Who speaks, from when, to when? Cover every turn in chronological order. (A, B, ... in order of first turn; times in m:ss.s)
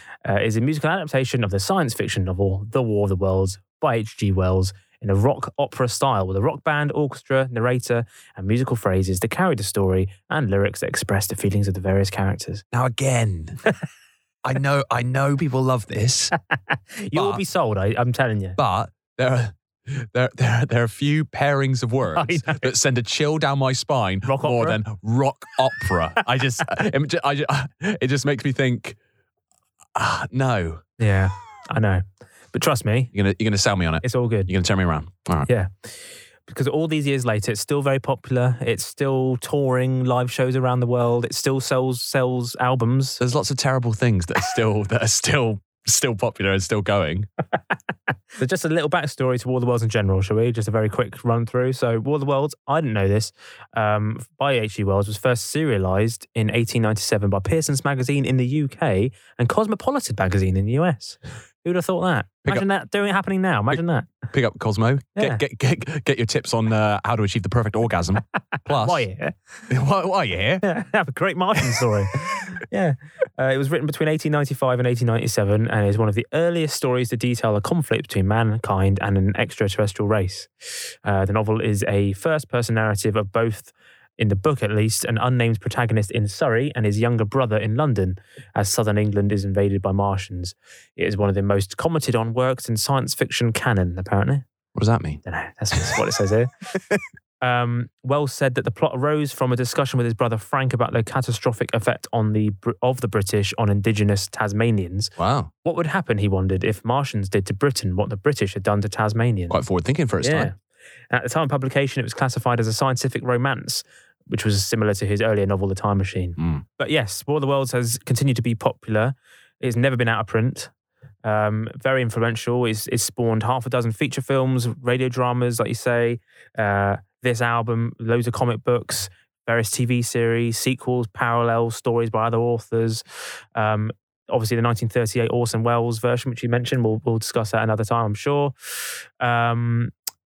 0:00.2-0:12.6 A
0:12.7-0:13.6 B
0:14.4-0:16.3 B
0:17.0-0:18.6 A
0:17.1-0:17.4 B
0:18.6-0:29.0 B
0:22.2-0:22.7 A
0:24.2-0:24.8 A
0:30.0-0:30.8 B
0:31.0-0:33.1 A
0:33.1-0:35.5 B
0:34.0-0:34.5 A
0:35.5-0:35.9 A
0:36.5-0:43.2 A
0:43.2-0:47.3 B
0:48.4-1:04.2 A
1:04.3-1:09.0 B
1:05.2-1:05.4 A
1:08.7-1:09.4 A
1:09.7-1:10.6 B
1:10.6-1:20.5 A
1:21.0-1:34.4 A
1:34.8-1:35.2 B
1:35.2-1:36.5 A
1:37.4-1:49.6 A
1:45.2-1:45.5 B
1:49.5-1:50.5 B
1:50.2-1:50.5 A
1:51.1-2:00.7 A
1:56.4-1:56.6 B
2:01.2-2:13.0 A
2:13.6-2:18.5 A
2:19.2-2:19.9 A